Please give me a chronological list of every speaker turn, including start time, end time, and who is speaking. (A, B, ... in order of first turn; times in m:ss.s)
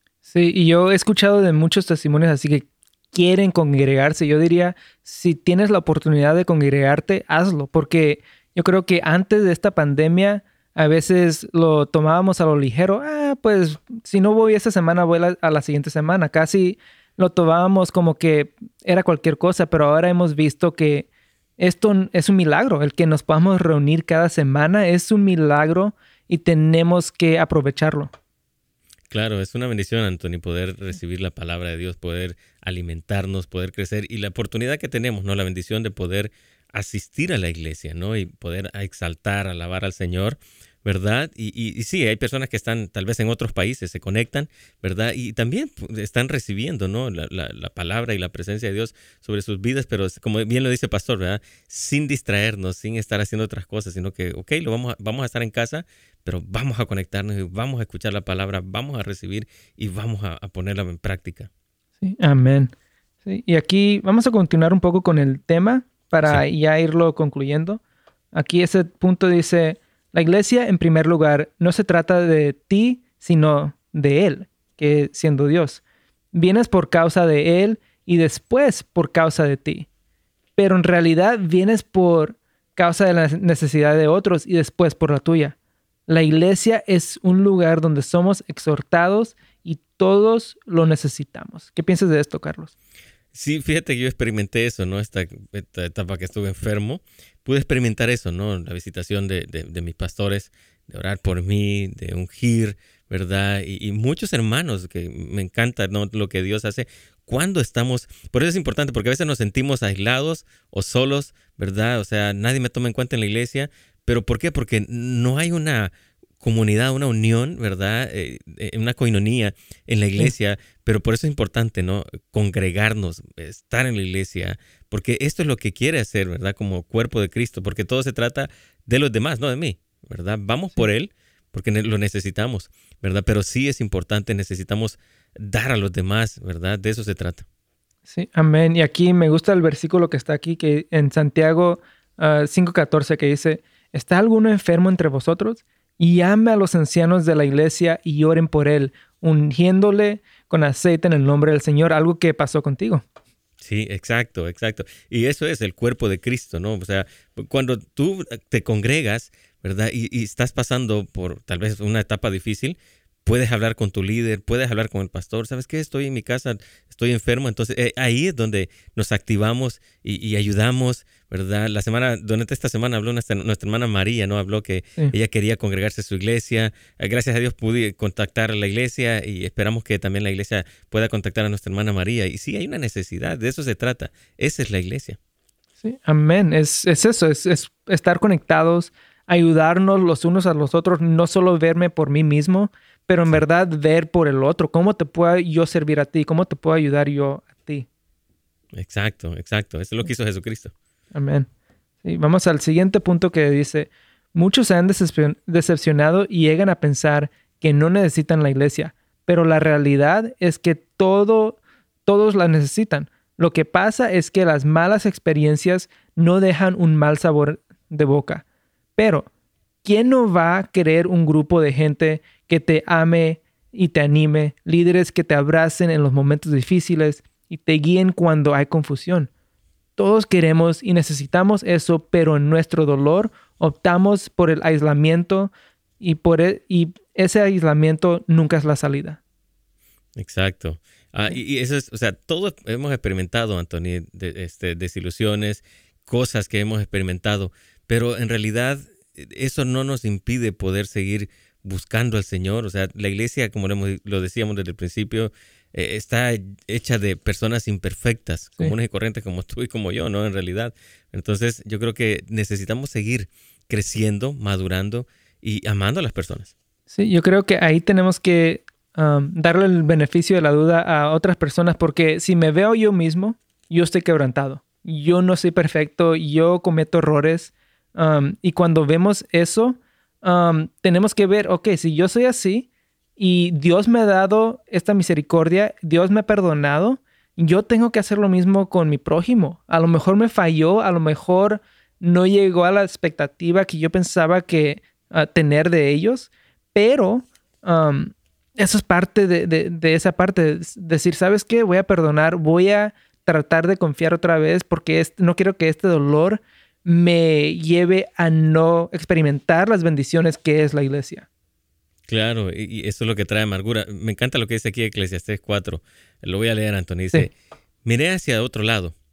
0:00.2-0:21.1 A
0:21.6-0:28.1 A
0:29.1-1:01.5 B
1:02.0-1:02.7 A
1:03.2-1:07.8 A
1:08.3-1:15.8 A
1:16.3-1:19.9 A
1:20.6-1:25.6 A
1:26.1-1:32.7 A
1:33.3-2:17.4 B
2:18.1-2:33.0 A
2:33.6-3:05.2 B
3:05.8-3:17.9 A
3:18.7-3:20.7 B
3:21.1-3:21.5 A
3:22.0-3:38.4 A
3:39.0-3:39.3 A
3:39.8-3:49.3 A
3:50.0-3:59.2 A
4:00.2-4:26.5 B
4:26.9-5:11.2 A
5:12.1-5:17.3 B
5:17.8-5:18.9 B